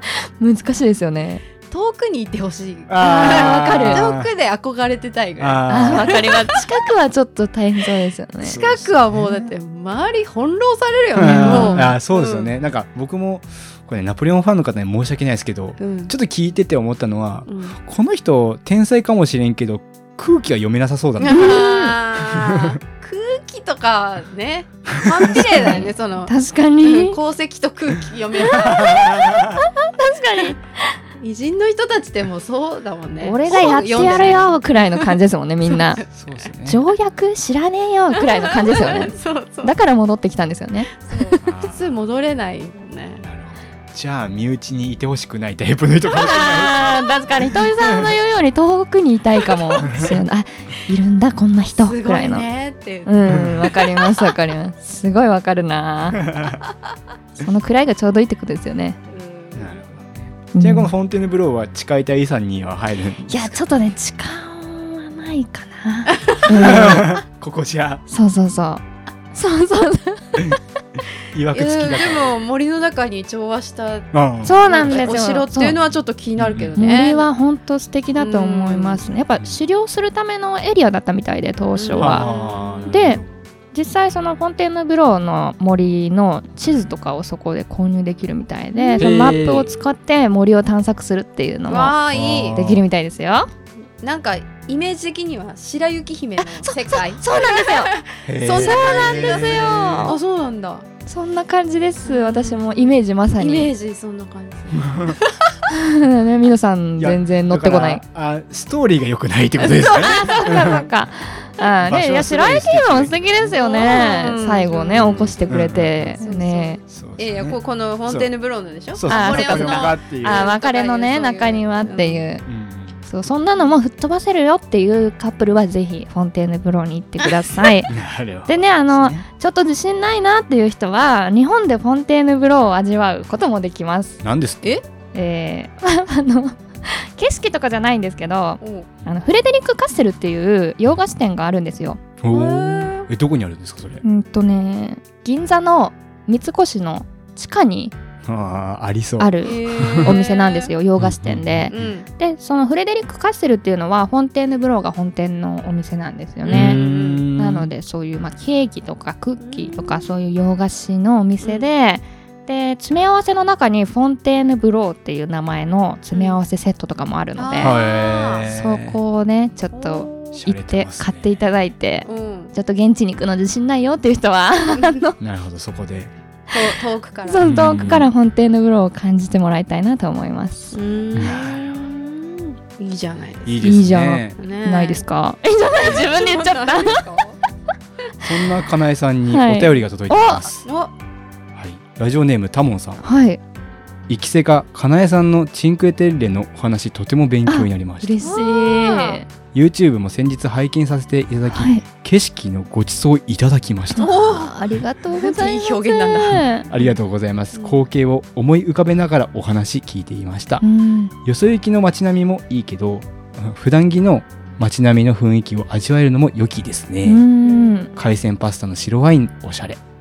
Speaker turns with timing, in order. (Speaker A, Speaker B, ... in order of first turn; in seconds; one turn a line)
Speaker A: 0.4-1.4
Speaker B: 1.7-6.6
Speaker C: 2.9-4.3
Speaker A: 3.0-4.0
Speaker C: 5.4-6.5
Speaker A: 5.7-8.6
Speaker B: 8.4-12.5
Speaker C: 8.4-9.0
Speaker A: 11.2-11.9
Speaker C: 11.2-21.6
Speaker B: 15.8-16.1
Speaker B: 17.5-17.8
Speaker B: 21.2-29.1
Speaker A: 21.3-22.0
Speaker C: 22.3-22.8
Speaker C: 25.1-25.8
Speaker A: 25.4-27.2
Speaker A: 28.4-31.0
Speaker C: 28.9-29.4
Speaker B: 31.2-35.2
Speaker A: 33.2-36.0
Speaker C: 33.6-34.5
Speaker C: 36.1-36.8
Speaker A: 36.6-41.5
Speaker B: 38.3-39.7
Speaker B: 41.0-43.3
Speaker C: 41.4-41.9
Speaker C: 43.2-48.1
Speaker A: 46.1-52.5
Speaker C: 49.9-50.1
Speaker B: 51.8-53.1
Speaker A: 53.0-56.2
Speaker C: 53.3-53.7
Speaker B: 54.0-54.3
Speaker A: 57.4-59.0
Speaker B: 59.1-59.8
Speaker C: 59.5-63.5
Speaker A: 60.5-60.9
Speaker A: 63.3-67.1
Speaker C: 66.5-68.0
Speaker A: 68.1-70.6
Speaker C: 71.3-72.3
Speaker B: 71.5-77.3
Speaker C: 74.1-75.0
Speaker A: 74.4-75.8
Speaker C: 76.4-76.8
Speaker A: 76.8-82.3
Speaker B: 78.2-79.1
Speaker B: 81.7-83.1
Speaker C: 82.0-83.2
Speaker A: 82.9-83.2
Speaker A: 83.7-92.0
Speaker B: 88.7-89.1
Speaker C: 89.0-89.7
Speaker B: 91.7-92.6
Speaker C: 92.1-92.8
Speaker A: 92.5-93.5
Speaker B: 94.0-100.9
Speaker A: 96.5-97.9
Speaker C: 98.3-100.1
Speaker A: 98.5-100.2
Speaker A: 101.1-103.7
Speaker B: 102.0-105.4
Speaker A: 105.7-108.0
Speaker C: 107.0-110.8
Speaker B: 109.6-110.4
Speaker A: 109.9-116.8
Speaker C: 111.9-114.2
Speaker B: 113.5-122.3
Speaker C: 115.0-116.2
Speaker C: 116.9-118.3
Speaker C: 118.9-120.5
Speaker A: 119.1-122.5
Speaker C: 122.5-123.0
Speaker A: 123.0-127.9
Speaker C: 127.9-129.3
Speaker A: 128.4-134.2
Speaker C: 134.2-134.7
Speaker A: 135.1-142.0
Speaker B: 138.6-138.9
Speaker C: 142.2-144.0
Speaker B: 142.3-143.1
Speaker A: 144.0-147.9
Speaker C: 148.3-150.2
Speaker A: 149.2-156.8
Speaker B: 149.4-150.7
Speaker C: 151.0-151.9
Speaker B: 151.7-152.1
Speaker B: 156.4-157.3
Speaker C: 156.5-157.7
Speaker A: 157.3-167.8
Speaker B: 159.4-160.1
Speaker B: 161.4-161.7
Speaker B: 166.1-166.4
Speaker B: 167.4-168.5
Speaker C: 167.6-169.0
Speaker A: 168.5-175.2
Speaker B: 169.7-170.4
Speaker C: 170.3-171.3
Speaker B: 172.1-172.5
Speaker C: 175.2-176.1
Speaker B: 176.5-177.4
Speaker A: 177.3-181.4
Speaker C: 177.4-178.1
Speaker B: 180.7-183.6
Speaker C: 181.2-181.8
Speaker C: 183.4-184.4
Speaker A: 183.6-187.0
Speaker B: 184.4-185.0
Speaker B: 185.8-187.4
Speaker C: 188.2-190.7
Speaker A: 189.3-190.5
Speaker B: 190.7-190.9
Speaker C: 191.6-193.0
Speaker A: 193.0-193.4
Speaker C: 194.1-198.2
Speaker A: 197.4-199.3
Speaker B: 198.2-199.2
Speaker C: 199.5-204.1
Speaker A: 201.5-201.8
Speaker A: 203.9-206.7
Speaker B: 204.0-204.6
Speaker B: 205.1-206.9
Speaker C: 206.7-210.6
Speaker B: 207.5-207.9
Speaker A: 210.6-211.1
Speaker C: 211.2-217.2
Speaker A: 217.0-217.9
Speaker B: 217.4-218.2
Speaker C: 218.0-219.8